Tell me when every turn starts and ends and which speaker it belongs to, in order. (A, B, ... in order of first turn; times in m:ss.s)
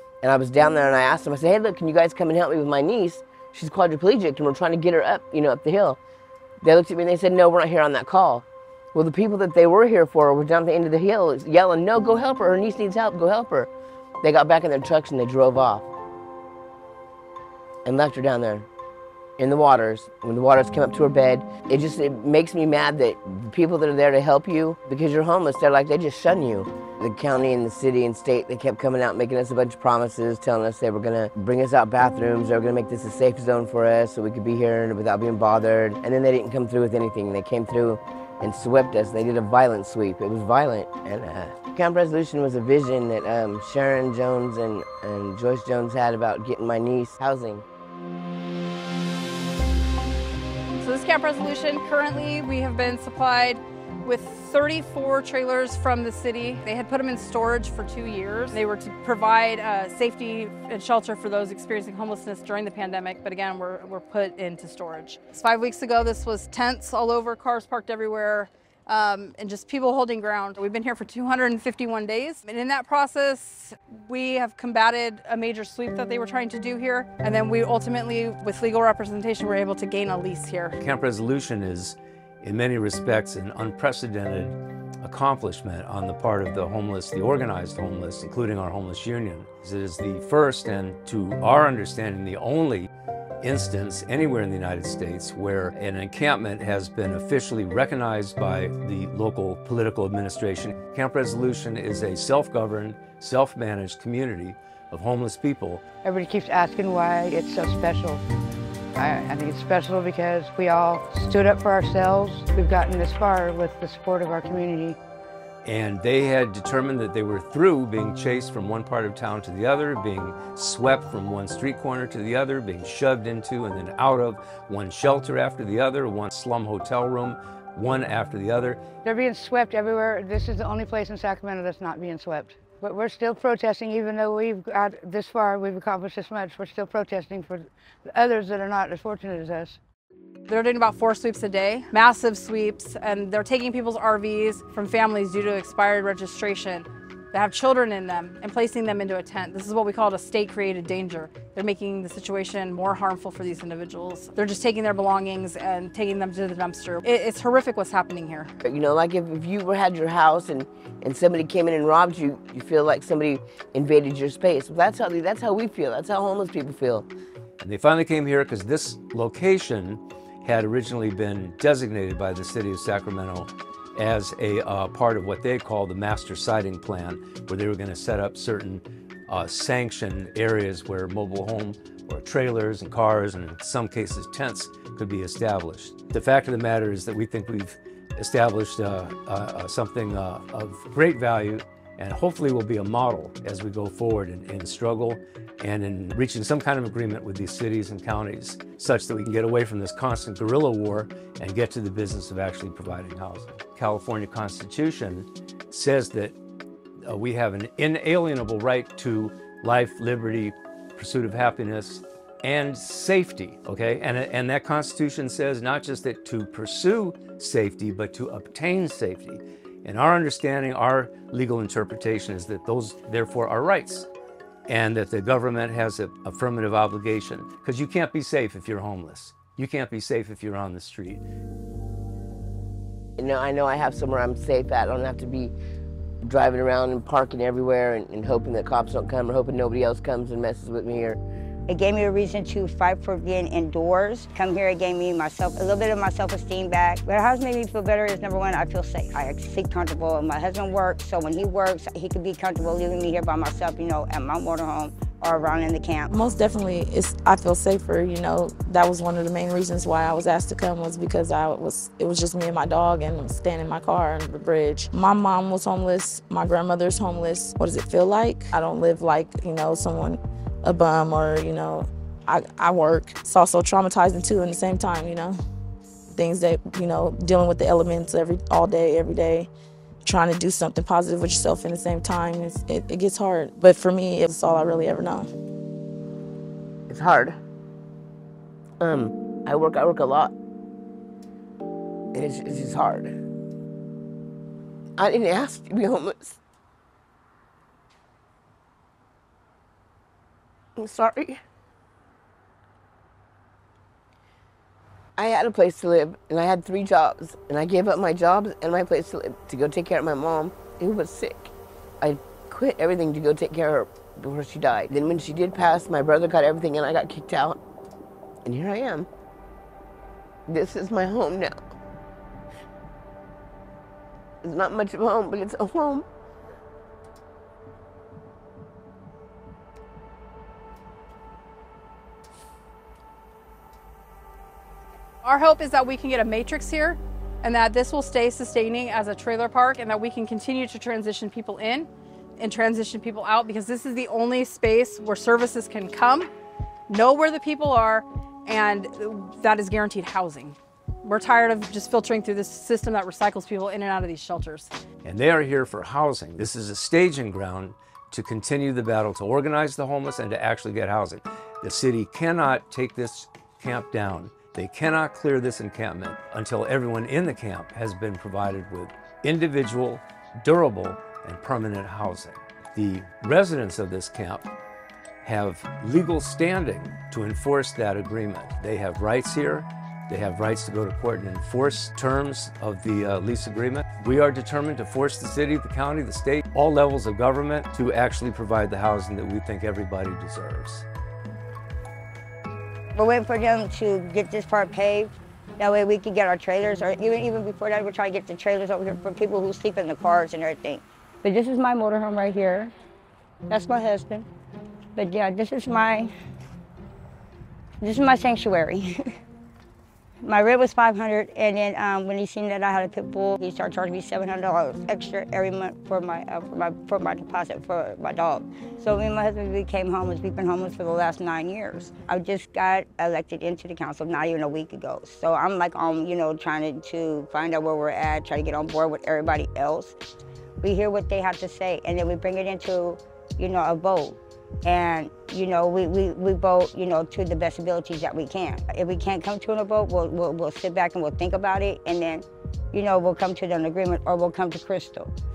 0:00.2-0:06.0 A
0:06.6-0:13.7 A
0:14.2-0:15.9 A
0:17.8-0:18.7 A
0:19.4-0:47.6 A
0:50.8-1:20.8 B
1:20.8-1:32.9 C
1:33.4-1:45.8 C
1:46.0-1:48.2 D
1:49.0-1:55.0 D
1:55.6-2:08.8 C
2:09.0-2:19.8 D
2:20.5-2:38.5 B
2:38.6-2:47.1 A
2:47.6-3:26.4 C
3:27.0-3:44.1 C
3:44.7-3:51.2 C
3:53.2-3:55.5 A
3:56.2-4:01.2 A
4:01.7-4:16.1 E
4:16.1-4:35.4 F
4:36.1-4:39.5 F
4:40.0-4:45.3 F
4:46.9-4:47.4 A
4:48.8-4:50.3 A
4:52.1-4:53.2 A
4:55.0-4:56.4 A
5:00.8-5:01.4 A
5:05.2-5:17.6 A
5:18.4-5:19.1 A
5:20.5-5:21.6 A
5:24.4-5:26.0 A
5:35.2-5:46.3 B
5:46.9-5:54.7 B
5:55.0-6:14.5 C
6:15.2-6:30.8 C
6:32.9-6:42.7 E
6:43.5-6:44.3 E
6:45.0-6:46.1 E
6:47.8-6:48.9 E
6:50.2-7:09.9 E
7:10.6-7:25.1 E